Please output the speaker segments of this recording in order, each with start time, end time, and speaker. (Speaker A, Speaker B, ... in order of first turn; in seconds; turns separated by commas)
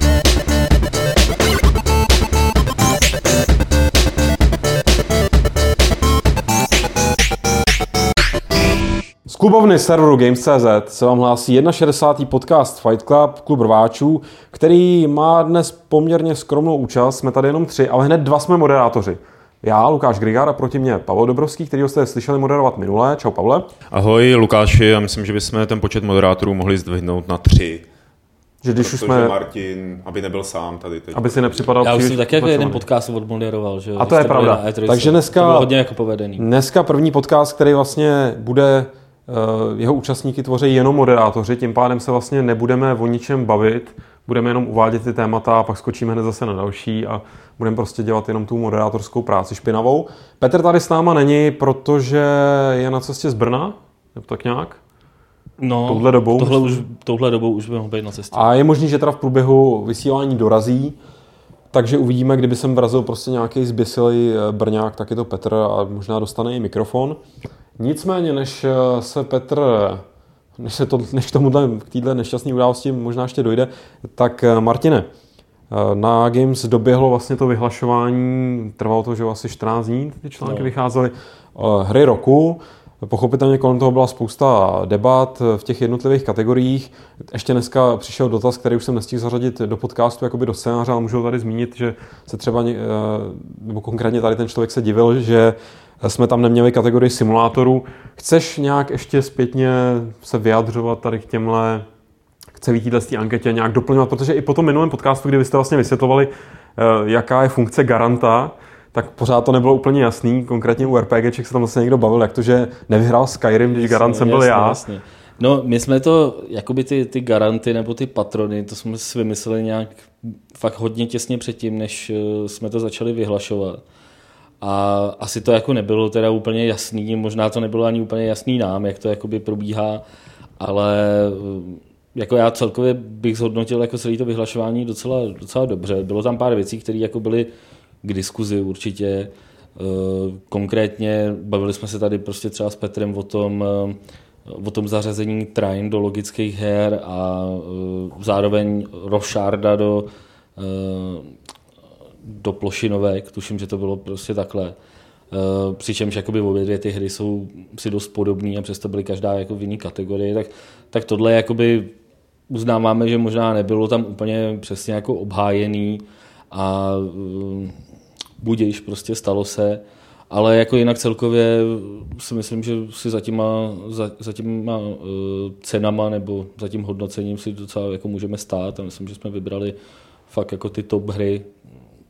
Speaker A: 9.3-23.7, Speaker B: 23.9-27.9, Speaker A: 28.6-29.4, Speaker B: 28.8-31.7, Speaker A: 31.1-32.8, Speaker C: 31.8-36.5, Speaker A: 34.0-35.7, Speaker A: 36.4-54.8, Speaker C: 55.6-58.4, Speaker A: 55.9-56.9, Speaker A: 58.3-61.0, Speaker A: 61.7-67.2, Speaker A: 67.8-70.0, Speaker A: 70.6-75.1, Speaker A: 75.7-101.9, Speaker C: 80.4-80.7, Speaker A: 102.6-114.8, Speaker C: 113.7-123.8, Speaker C: 124.6-130.0, Speaker C: 130.6-137.5, Speaker C: 138.0-151.3, Speaker C: 152.2-154.8, Speaker C: 155.3-161.9, Speaker C: 162.5-167.8, Speaker C: 168.4-179.8, Speaker C: 180.3-181.5